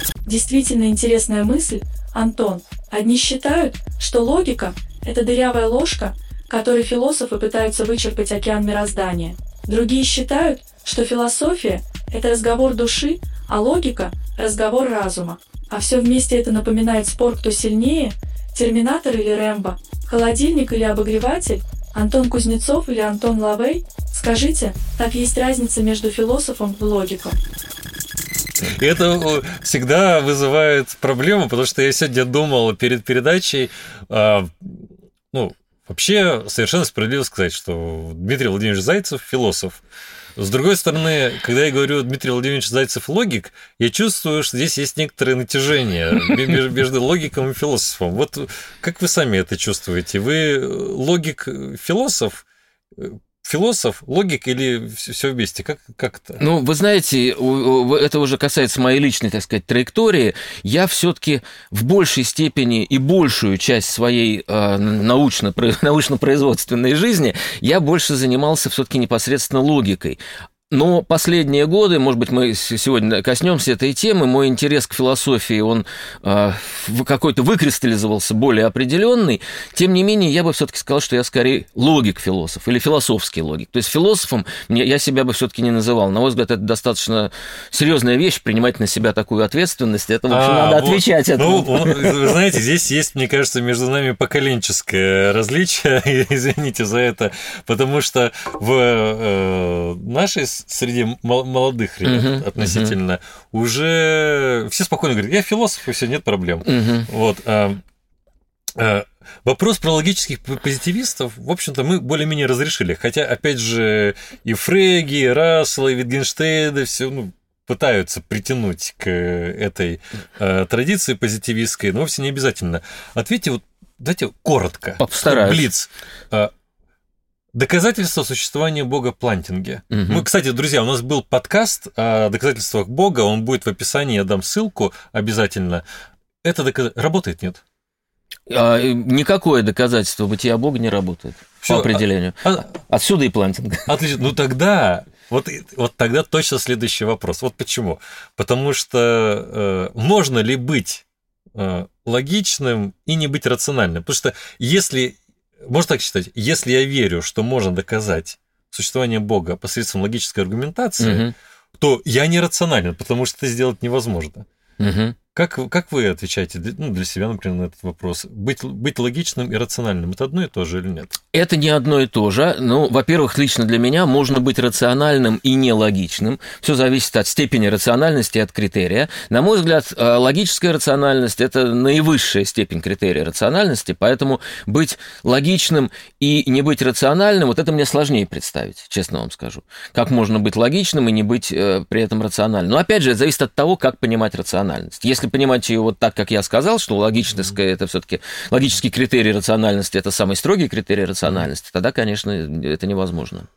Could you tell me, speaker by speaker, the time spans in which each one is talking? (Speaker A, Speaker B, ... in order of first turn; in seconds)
Speaker A: 0.2-27.4
Speaker B: 28.6-39.8, 40.4-52.4, 53.0-56.4, 90.3-107.8, 108.8-126.5, 127.5-135.8, 136.4-137.6, 141.6-142.7, 143.9-151.0, 151.5-161.3, 161.8-164.4, 165.3-171.2
Speaker C: 56.4-92.2, 102.0-102.9, 106.7-107.1, 125.0-125.7, 129.9-130.2, 138.5-143.9, 161.0-161.3, 164.8-165.2, 171.3-203.5